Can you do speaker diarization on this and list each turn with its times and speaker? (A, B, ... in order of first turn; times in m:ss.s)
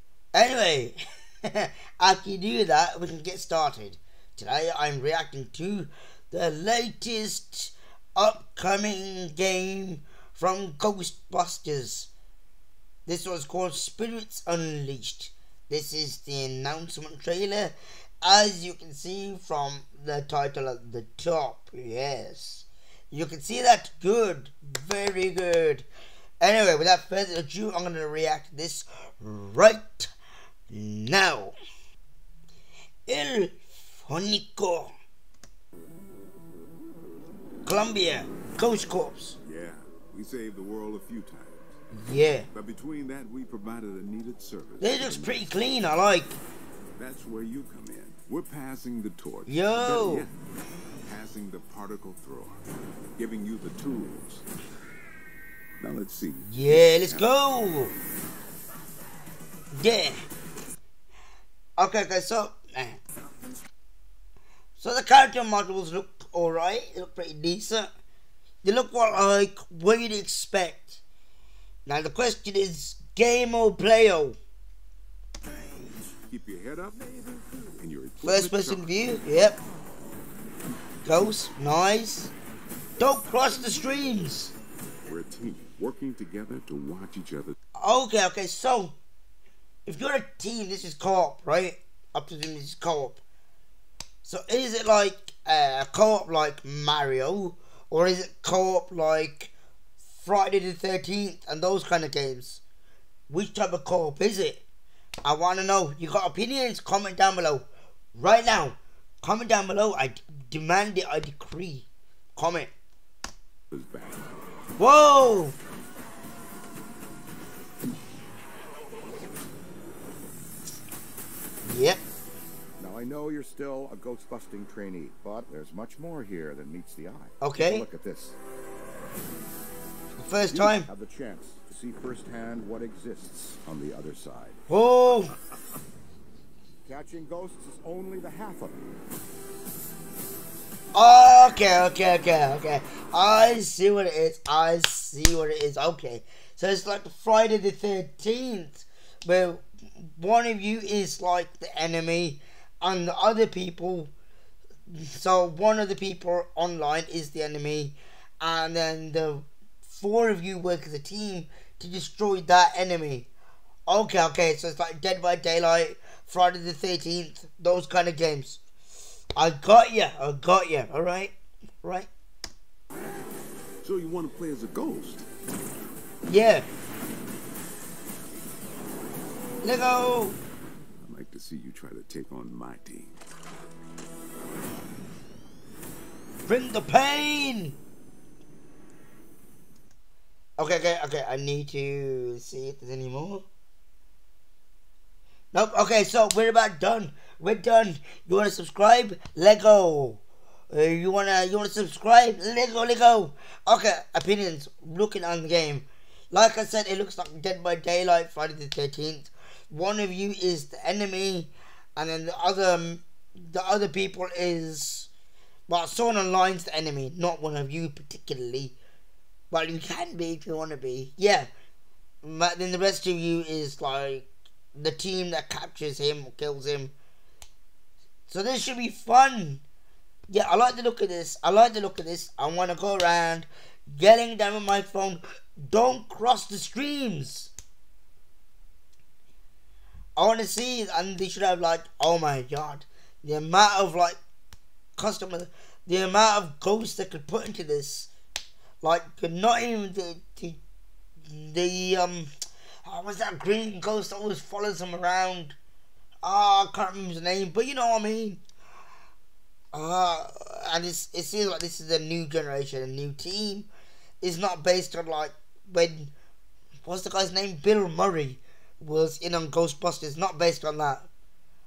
0:00.3-0:12.1 A
0:13.1-0:25.9 A
0:26.4-0:30.1 A
0:30.7-0:31.6 A
0:33.1-0:34.9 A
0:37.6-0:39.4 A
0:39.4-0:41.8 B
0:41.9-0:42.5 A
0:42.5-0:45.5 B
0:44.8-0:46.4 A
0:47.0-0:50.4 B
0:49.5-0:50.3 A
0:51.0-0:52.6 B
0:53.2-0:54.5 B
0:55.8-0:57.3 B
0:56.5-0:57.9 A
0:59.7-1:00.2 A
1:01.8-1:03.0 A
1:04.8-1:07.9 A
1:08.6-1:11.0 A
1:11.9-1:14.4 A
1:16.3-1:19.2 B
1:18.2-1:19.6 A
1:21.0-1:22.3 A
1:23.0-1:24.6 A
1:25.1-1:27.6 B
1:27.8-1:29.0 A
1:29.9-1:33.2 A
1:34.2-1:39.5 A
1:40.2-1:42.6 A
1:43.3-1:44.6 A
1:45.2-1:52.7 A
1:53.7-1:54.2 B
1:54.8-1:55.6 A
2:01.7-2:02.0 A
2:02.8-2:08.4 C
2:07.4-2:07.9 A
2:10.2-2:10.9 A
2:10.5-2:14.6 C
2:14.7-2:15.4 A
2:16.8-2:18.8 C
2:20.9-2:34.1 A
2:34.9-2:43.3 A
2:43.9-2:48.6 A
2:49.4-2:52.1 A
2:53.8-2:55.3 B
2:56.3-2:56.7 A
2:59.6-3:00.4 A
3:01.0-3:03.2 B
3:06.5-3:07.8 A
3:10.6-3:13.4 A
3:15.5-3:35.1 A
3:35.7-3:38.8 A
3:39.5-3:41.5 A
3:42.2-3:46.9 A
3:48.3-3:49.6 A
3:50.3-3:57.5 A
4:00.2-4:04.2 A
4:05.0-4:08.1 A
4:08.8-4:10.6 A
4:11.3-4:12.3 A
4:12.8-4:15.6 A
4:16.2-4:18.4 A
4:19.7-4:23.7 A
4:24.2-4:26.1 A
4:26.8-4:31.1 A